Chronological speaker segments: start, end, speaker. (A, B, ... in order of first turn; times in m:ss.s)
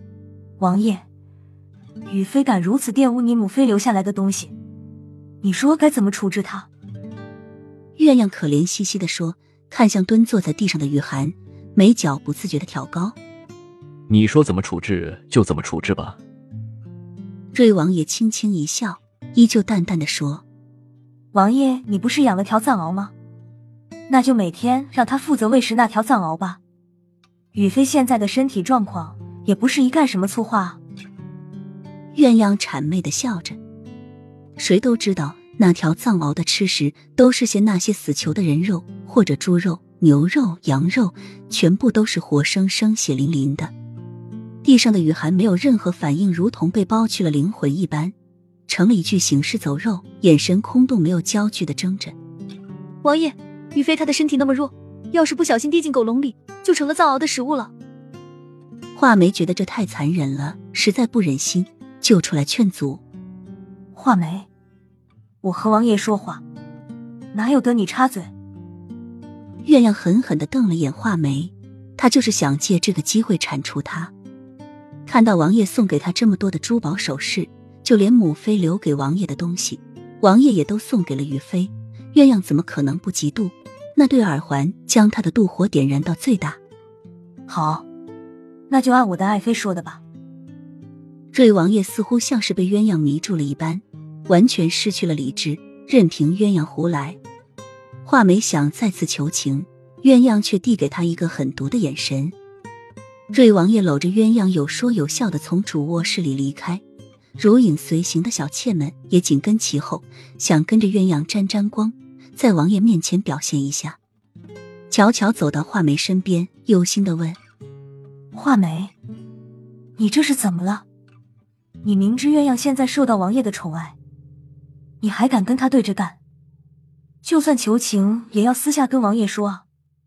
0:00.6-0:01.0 A
0:02.1-0:04.5 A
0:05.4-0:06.7 A
0:08.0-0:13.2 B
0:14.1-0:16.2 C
0:17.5-0:20.4 B
0:21.3-0:23.1 A
0:24.1-0:26.6 A
0:27.5-0:30.8 A
0:32.1-0:33.6 B
0:34.6-0:43.7 B
0:44.6-0:48.2 B
0:48.7-0:52.2 B
0:53.0-0:57.7 D
0:59.0-1:03.0 B
1:04.0-1:04.5 A
1:05.4-1:06.4 A
1:07.3-1:08.3 A
1:09.6-1:14.1 B
1:15.1-1:26.6 B
1:27.5-1:27.8 A
1:28.7-1:30.0 A
1:31.3-1:37.2 B
1:38.0-1:42.4 B
1:43.3-1:46.8 B
1:47.4-1:54.0 B
1:54.9-1:57.4 B
1:58.3-1:58.9 A
2:00.0-2:00.8 A
2:01.8-2:04.0 A
2:05.0-2:06.2 A
2:07.2-2:09.6 A